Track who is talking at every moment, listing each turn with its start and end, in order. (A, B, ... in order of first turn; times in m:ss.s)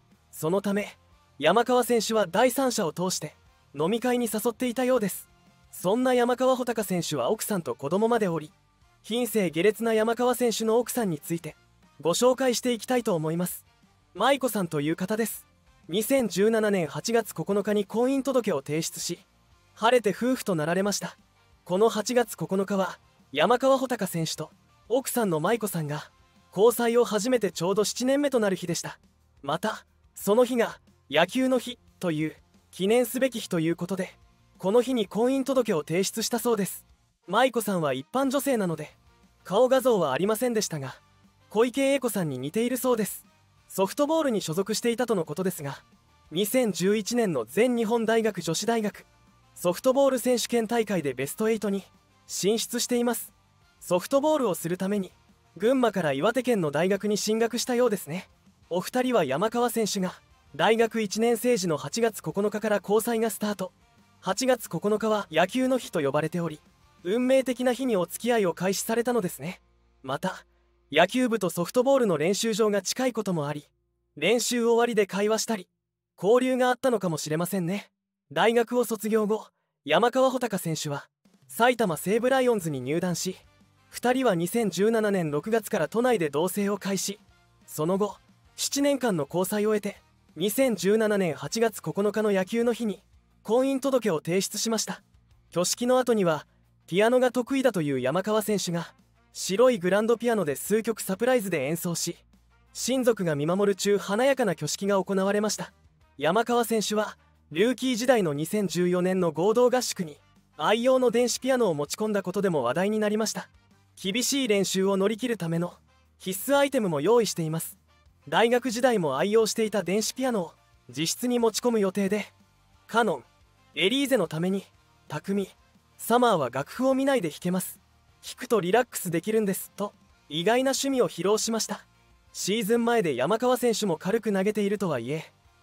0:00.3-2:02.3 A
2:02.9-2:15.3 A